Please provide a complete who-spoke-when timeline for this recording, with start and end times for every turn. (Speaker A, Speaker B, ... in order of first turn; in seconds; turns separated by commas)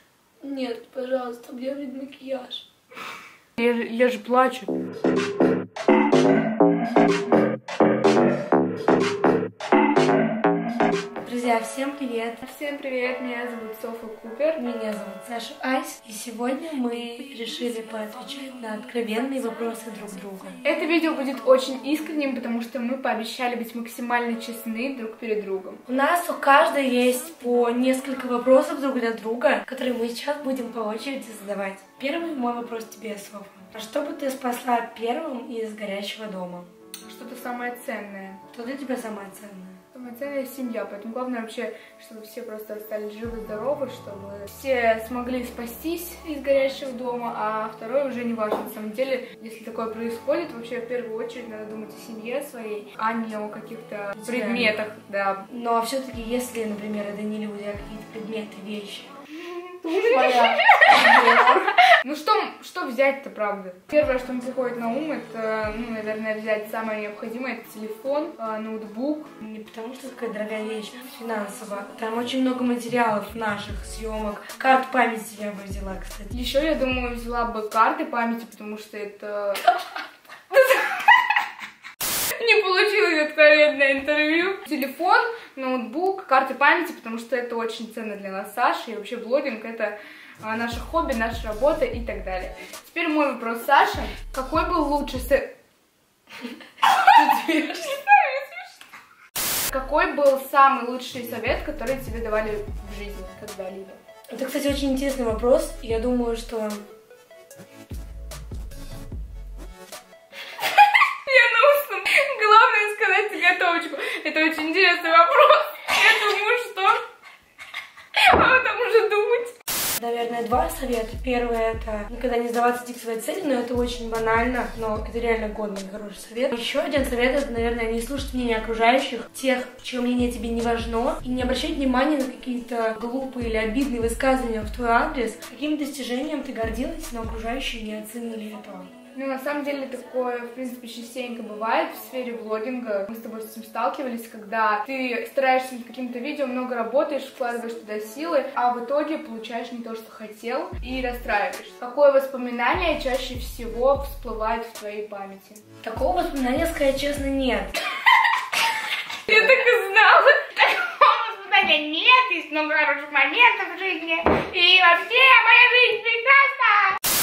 Speaker A: 0.4-2.7, Speaker B: 3.6-4.7, Speaker A: 11.2-12.4, Speaker B: 12.4-14.6, Speaker A: 14.6-20.6, Speaker B: 20.6-25.8, Speaker A: 25.9-36.7, Speaker B: 37.1-38.4, Speaker A: 38.5-39.8, Speaker B: 39.9-55.5, Speaker A: 54.2-54.8, Speaker A: 55.5-59.1, Speaker B: 59.4-69.4, Speaker A: 60.0-61.7, Speaker A: 69.4-76.3, Speaker B: 76.3-79.7, Speaker B: 80.5-81.3, Speaker B: 82.4-95.5, Speaker B: 96.8-98.8, Speaker A: 97.1-98.0, Speaker B: 99.7-104.0, Speaker A: 104.3-106.9, Speaker B: 110.6-117.0, Speaker B: 118.1-119.5, Speaker A: 120.0-138.9, Speaker B: 139.1-155.6, Speaker A: 155.8-157.8, Speaker B: 159.3-167.0